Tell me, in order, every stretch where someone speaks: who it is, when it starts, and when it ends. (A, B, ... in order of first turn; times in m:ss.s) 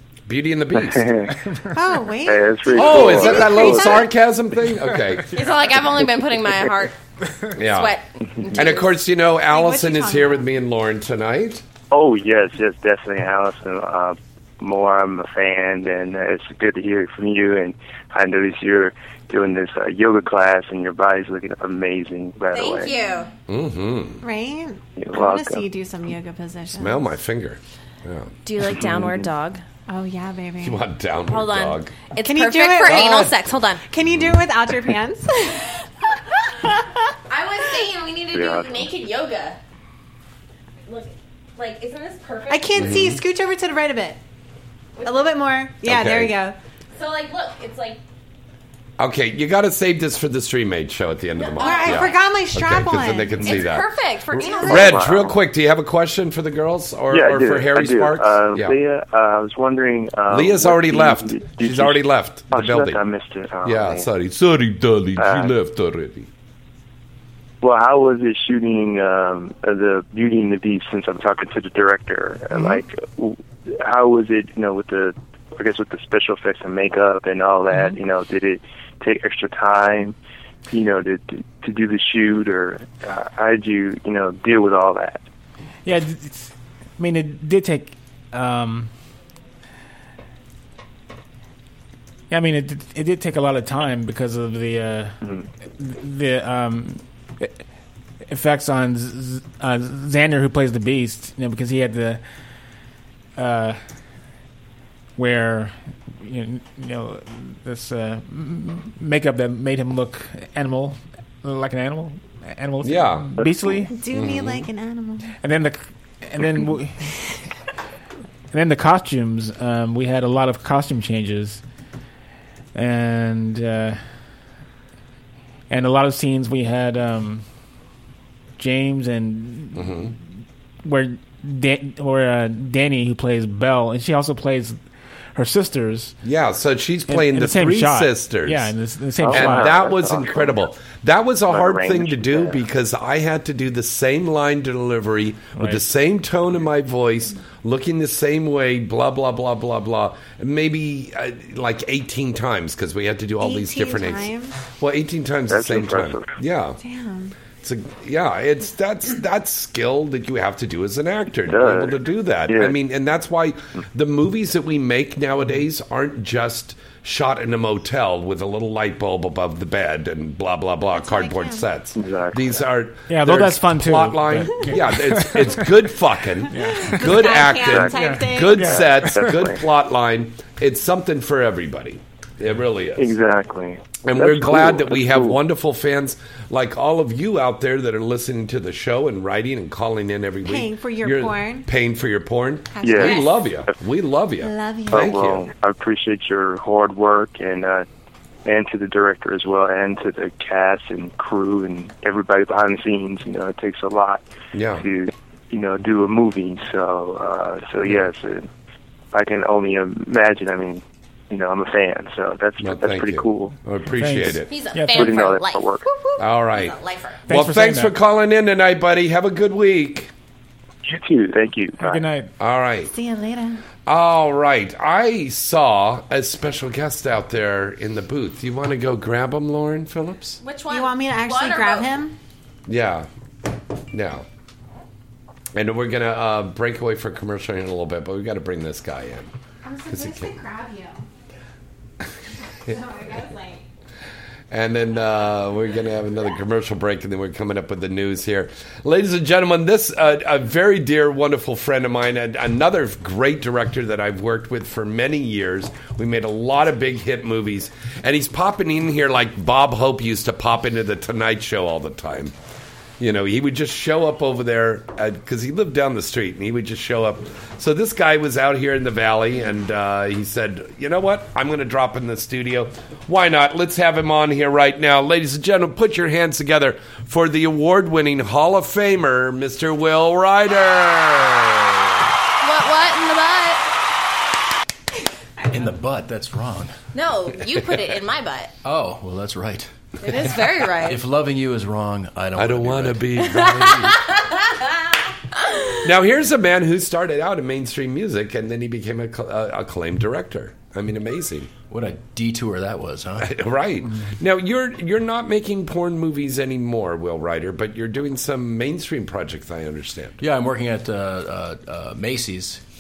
0:00.3-0:01.3 A
0:00.8-0:01.3 B
0:01.3-0:01.6 C
0:01.7-0:04.1 D
0:02.2-0:04.0 B
0:02.7-0:05.3 A
0:05.3-0:07.0 E
0:07.6-0:08.0 A
0:07.6-0:08.9 E
0:08.5-0:11.6 A
0:09.5-0:10.5 D
0:11.9-0:22.9 B
0:22.5-0:23.3 E
0:23.5-0:24.2 A
0:24.2-0:27.0 D
0:25.0-0:25.7 B
0:26.7-0:28.3 A
0:28.4-0:29.6 E
0:29.9-0:30.8 D
0:30.6-0:31.9 A
0:31.3-0:33.8 E
0:32.2-0:33.4 D
0:33.9-0:35.7 D
0:37.3-0:39.6 E
0:38.3-0:38.8 B
0:40.8-0:43.0 E
0:42.5-0:44.2 D
0:42.8-0:43.2 A
0:45.0-0:45.3 E
0:45.0-0:46.6 D
0:45.8-0:46.3 A
0:46.9-0:48.0 E
0:49.0-0:53.9 A
0:51.4-0:52.2 E
0:51.6-0:53.5 D
0:53.4-0:55.0 E
0:54.4-0:54.9 D
0:54.6-0:58.8 A
0:54.7-0:55.4 B
0:57.1-1:04.1 B
1:00.3-1:03.0 A
1:03.6-1:06.3 A
1:05.2-1:05.5 B
1:07.6-1:20.2 B
1:20.7-1:25.2 B
1:25.8-1:28.9 C
1:32.3-1:35.2 C
1:35.8-1:37.6 C
1:38.3-1:42.2 C
1:43.4-1:43.8 C
1:45.2-1:53.9 C
1:52.8-1:53.3 A
1:53.9-1:55.3 D
1:54.1-1:54.7 A
1:55.4-1:57.2 C
1:58.5-2:01.6 C
2:02.7-2:04.0 C
2:05.7-2:07.4 C
2:08.6-2:10.2 C
2:09.8-2:10.1 A
2:10.8-2:14.8 C
2:15.4-2:16.2 C
2:16.2-2:18.7 A
2:17.1-2:19.8 C
2:19.2-2:20.5 B
2:19.3-2:36.8 A
2:21.5-2:22.6 B
2:25.6-2:25.8 C
2:33.4-2:34.6 D
2:35.5-2:36.3 B
2:36.8-2:37.4 D
2:37.6-3:03.1 A
2:41.5-2:42.8 B
2:50.9-2:51.6 D
2:52.0-2:52.6 B
2:53.1-2:55.7 C
2:56.5-2:57.2 C
2:56.7-2:58.8 D
2:57.6-2:58.0 B
2:57.9-2:59.3 C
2:58.6-2:59.6 B
3:03.0-3:05.4 B
3:04.0-3:15.4 A
3:10.4-3:11.7 D
3:12.8-3:13.3 D
3:12.8-3:13.2 B
3:14.4-3:15.1 D
3:14.9-3:17.8 B
3:18.4-3:24.2 B
3:24.5-3:24.8 A
3:24.7-3:28.5 B
3:29.1-3:33.5 B
3:32.6-3:34.5 A
3:34.0-3:35.2 C
3:34.5-3:35.7 E
3:34.9-3:35.8 B
3:35.9-3:36.2 D
3:36.2-3:36.8 A
3:36.5-3:37.2 E
3:37.3-3:37.9 C
3:37.3-3:40.1 A
3:40.8-3:42.1 B
3:41.8-3:42.3 C
3:42.4-3:42.9 A
3:42.9-3:43.6 D
3:43.8-3:50.4 A
3:50.4-3:51.9 E
3:50.7-3:52.1 D
3:52.7-3:53.1 A
3:53.9-3:54.2 A
3:55.6-3:59.3 A
3:59.6-4:01.1 D
3:59.9-4:00.4 A
4:02.6-4:03.6 D
4:04.5-4:22.3 A
4:23.0-4:41.9 A
4:42.4-4:43.6 E
4:45.5-4:46.7 F
4:46.9-4:48.5 E
4:48.6-4:50.2 F
4:50.0-4:51.0 E
4:50.8-4:53.1 F
4:52.4-4:54.0 A
4:53.2-4:54.2 E
4:55.8-5:01.5 A
5:01.7-5:03.3 F
5:03.2-5:10.2 A
5:10.2-5:12.6 F